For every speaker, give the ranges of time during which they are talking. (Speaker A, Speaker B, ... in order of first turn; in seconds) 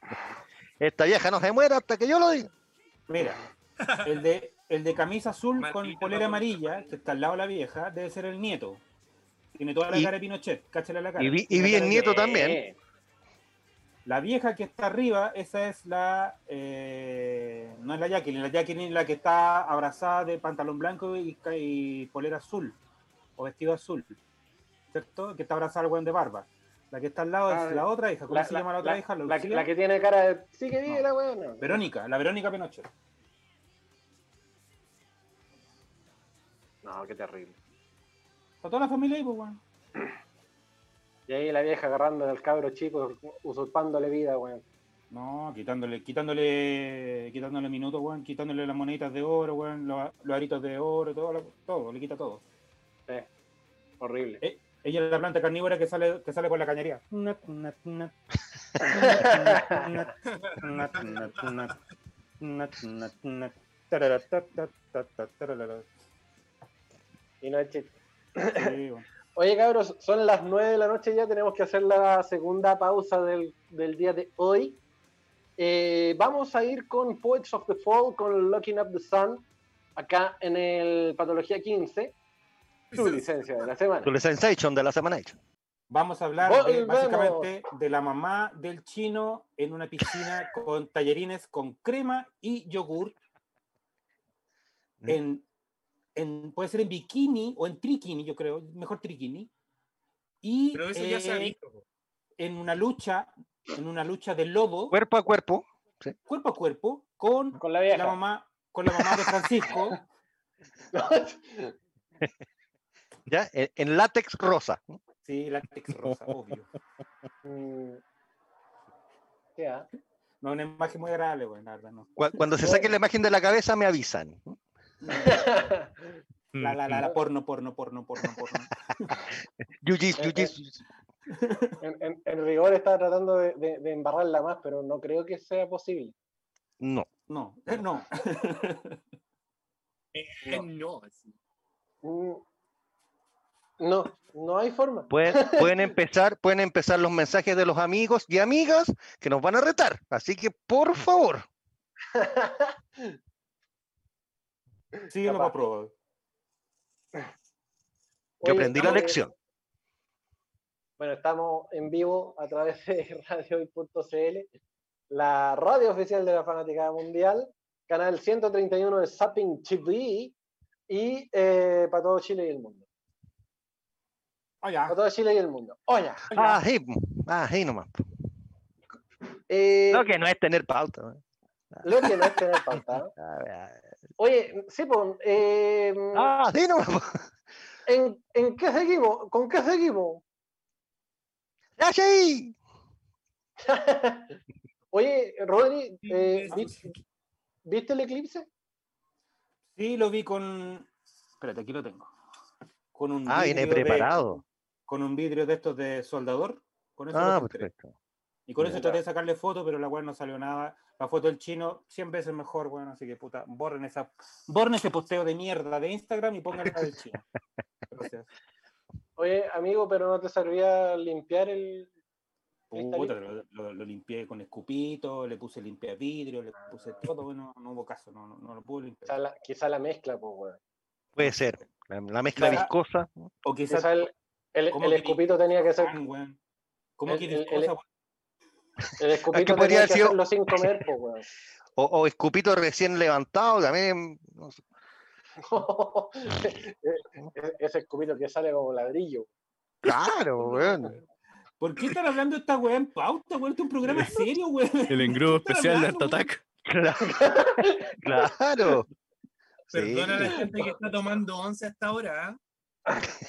Speaker A: 0.8-2.5, 11.2-12.6, 84.0-85.4, 104.9-106.2, 113.3-114.9, 122.2-124.6, 129.8-130.8, 136.8-137.1, 145.1-151.5, 158.4-159.3, 176.3-178.0, 179.9-181.2, 183.2-183.8, 186.1-187.3, 191.8-192.6, 203.3-204.4, 207.1-207.9, 231.2-233.3, 239.3-240.8, 241.8-244.6, 249.8-250.9, 256.7-258.9, 259.7-260.4
Speaker B: 3.1-3.4, 4.0-8.8, 9.6-12.1, 14.1-22.8, 23.4-24.2, 24.9-29.7, 31.6-32.9, 38.6-39.6, 45.1-52.4, 54.4-58.1, 58.8-61.8, 62.4-65.9, 68.5-69.1, 85.9-93.2, 95.1-95.4, 96.2-99.5, 100.4-101.5, 102.4-105.0, 106.3-110.0, 115.2-116.7, 120.4-122.1, 125.0-125.5, 126.6-129.1, 131.3-131.8, 137.3-139.0, 155.1-155.9, 174.6-175.0, 196.5-196.8, 199.8-202.1, 202.9-207.7, 208.5-217.2, 217.9-218.3, 222.7-229.2, 232.4-232.7, 233.4-234.1, 234.7-236.4, 237.0-237.8, 251.6-256.2
Speaker C: 3.8-4.2, 5.6-6.8, 60.3-61.1, 82.9-83.3, 100.7-101.8, 140.1-141.3, 196.1-196.8, 259.7-262.4
Speaker D: 11.7-12.8, 27.5-31.8, 36.8-37.6, 41.3-44.6, 54.0-54.4, 58.8-59.9, 67.4-68.7, 69.3-74.8, 75.6-79.4, 80.0-82.2, 83.0-84.1, 86.4-87.5, 107.6-108.2, 110.9-111.8, 117.4-118.0, 119.6-119.9, 122.6-122.9, 125.1-126.0, 130.2-130.5, 131.8-136.1, 142.0-142.4, 143.8-145.8, 152.1-153.2, 155.0-155.6, 158.4-159.2, 161.0-164.5, 165.1-170.3, 170.9-172.8, 174.9-176.5, 179.5-180.1, 181.8-183.1, 184.2-186.3, 187.9-190.2, 193.6-194.3, 194.9-196.9, 197.7-198.5, 208.8-209.0, 219.2-221.9, 222.7-223.2, 226.7-227.1, 229.1-230.6, 232.4-232.6, 233.7-236.0, 237.1-237.7, 239.0-241.3, 245.4-249.3, 257.0-258.0
Speaker E: 126.5-127.1, 254.9-256.4